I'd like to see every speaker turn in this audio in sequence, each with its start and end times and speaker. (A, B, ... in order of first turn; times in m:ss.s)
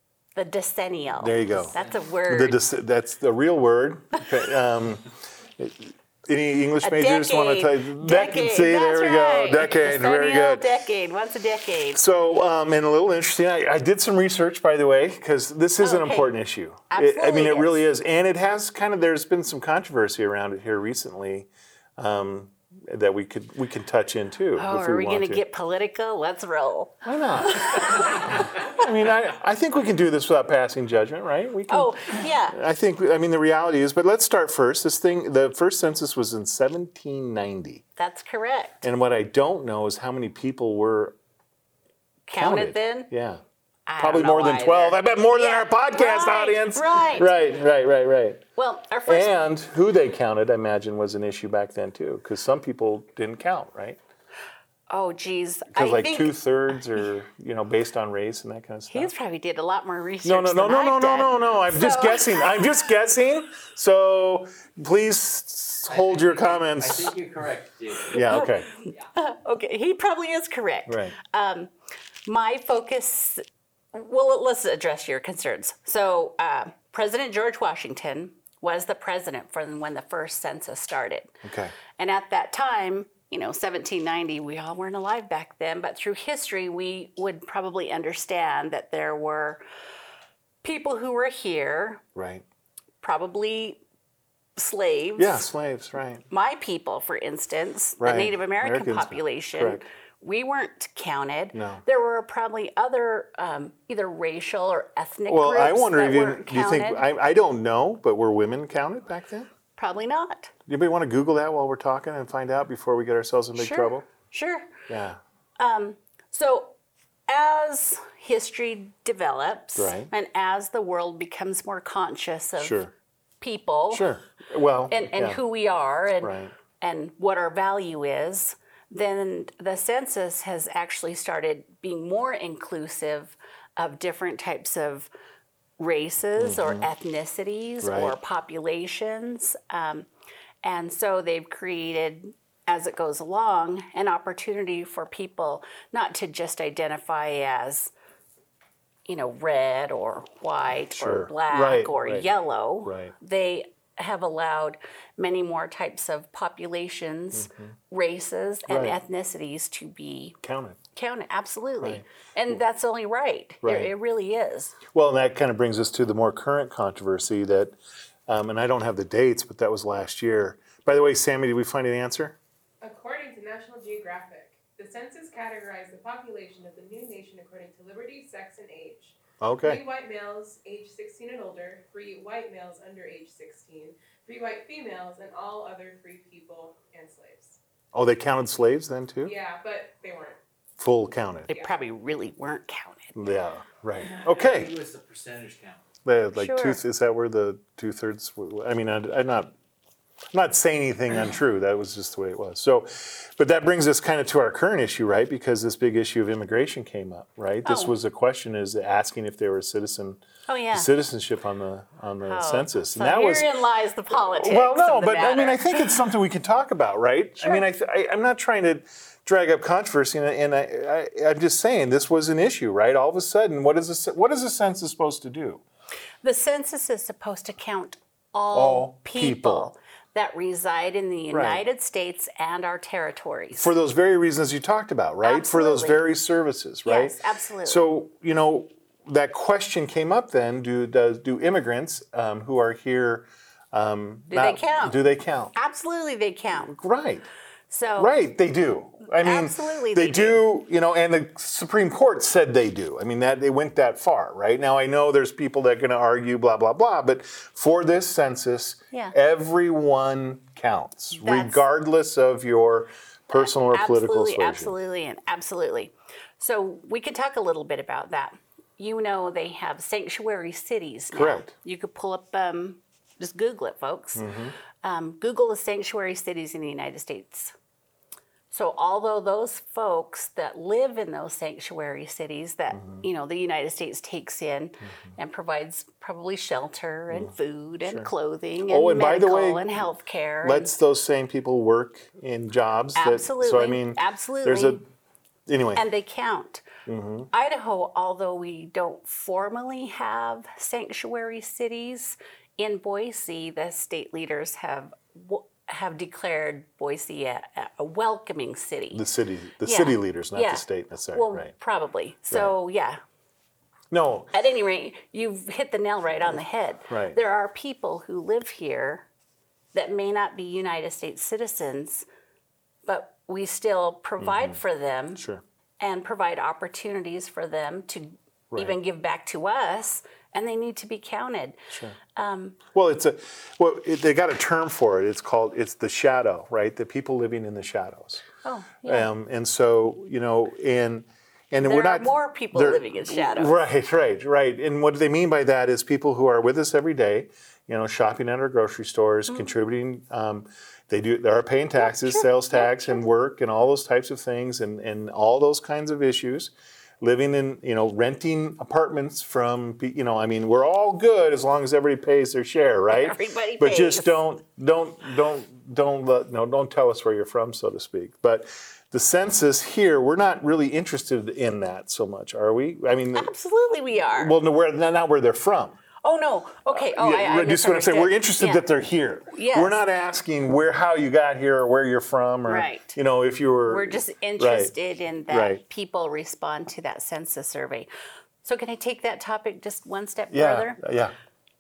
0:00.4-0:02.6 A
0:01.2-0:01.7 B
0:02.3-0:10.6 B
0:06.8-0:12.0 A
0:11.9-0:25.4 B
0:15.8-0:16.3 A
0:16.9-0:17.8 A
0:24.6-0:28.4 A
0:27.0-0:37.8 B
0:31.7-0:32.6 A
0:38.0-0:38.8 A
0:38.8-0:41.2 B
0:42.3-0:43.1 A
0:42.3-0:43.4 B
0:43.9-0:47.3 A
0:44.0-0:48.4 B
0:48.6-0:49.3 A
0:49.0-0:54.0 B
0:54.9-0:56.4 A
0:55.7-0:59.1 B
0:58.9-1:02.7 A
1:00.2-1:07.1 B
1:05.9-1:08.4 C
1:08.1-1:08.7 B
1:08.2-1:11.7 A
1:10.9-1:11.2 B
1:12.2-1:21.4 A
1:21.4-1:21.7 B
1:21.9-1:29.6 A
1:30.6-1:32.0 A
1:32.1-1:32.4 B
1:33.0-1:33.8 A
1:34.6-1:35.4 A
1:35.2-1:36.2 B
1:36.3-1:47.0 A
1:38.0-1:39.8 B
1:41.5-1:41.8 B
1:45.3-1:49.5 B
1:49.8-1:50.5 A
1:50.7-1:54.1 B
1:53.5-1:54.7 A
1:54.9-1:55.2 B
1:55.6-1:56.8 A
1:57.3-2:02.8 A
1:59.8-2:00.1 B
2:02.6-2:02.9 B
2:03.4-2:04.1 A
2:03.9-2:05.4 B
2:04.9-2:15.1 A
2:06.2-2:06.5 B
2:15.8-2:20.1 A
2:16.4-2:16.9 B
2:17.8-2:18.1 B
2:20.6-2:27.9 A
2:29.0-2:40.4 A
2:30.9-2:32.3 B
2:32.8-2:33.1 B
2:37.4-2:37.7 B
2:38.7-2:39.0 B
2:40.4-2:40.8 B
2:40.9-2:44.8 A
2:41.8-2:42.5 B
2:43.6-2:43.9 B
2:44.9-2:47.8 B
2:48.3-2:52.4 B
2:52.8-3:07.6 D
2:59.4-2:59.8 B
3:07.9-3:09.3 B
3:09.2-3:10.4 D
3:10.8-3:11.5 B
3:11.5-3:13.2 A
3:13.1-3:14.7 B
3:14.0-3:15.8 C
3:16.0-3:19.5 B
3:16.3-3:16.8 A
3:20.3-3:30.2 B
3:27.6-3:27.9 A
3:30.5-3:30.9 A
3:30.7-3:33.5 B
3:32.2-3:36.0 A
3:34.2-3:45.6 B
3:46.2-3:53.7 A
3:48.5-3:49.7 B
3:51.3-3:51.6 B
3:53.5-4:05.5 B
3:55.2-3:56.0 A
3:56.8-3:57.8 A
4:04.3-4:05.0 A
4:05.5-4:06.8 A
4:06.7-4:07.3 B
4:07.7-4:08.1 A
4:08.0-4:24.7 B
4:09.1-4:10.4 A
4:21.2-4:21.6 A
4:23.3-4:34.3 A
4:31.1-4:31.5 B
4:34.2-4:34.5 B
4:34.8-4:37.5 A
4:38.5-4:50.7 A
4:42.7-4:43.0 B
4:47.8-4:48.1 B
4:48.7-4:49.8 B
4:50.4-4:54.8 B
4:53.0-4:54.8 A
4:55.5-4:55.8 B
4:55.7-4:56.6 A
4:56.8-4:57.3 B
4:57.3-5:09.0 A
5:08.9-5:11.5 B
5:09.6-5:13.0 A
5:13.9-5:14.3 B
5:14.3-5:19.0 A
5:16.9-5:17.2 B
5:19.7-5:22.0 A
5:22.8-5:25.2 A
5:24.2-5:24.6 B
5:25.8-5:32.6 A
5:28.5-5:28.8 B
5:31.7-5:32.0 B
5:32.7-5:38.2 B
5:38.4-5:39.1 A
5:38.8-6:13.3 B
5:41.6-5:43.6 A
5:51.8-5:53.0 A
6:02.9-6:04.2 A
6:13.1-6:14.3 A
6:14.1-6:15.8 B
6:16.0-6:18.6 A
6:16.7-6:24.7 B
6:19.3-6:19.8 A
6:22.5-6:23.0 A
6:23.7-6:27.9 A
6:25.3-6:25.6 B
6:28.4-6:30.8 A
6:30.3-6:31.1 B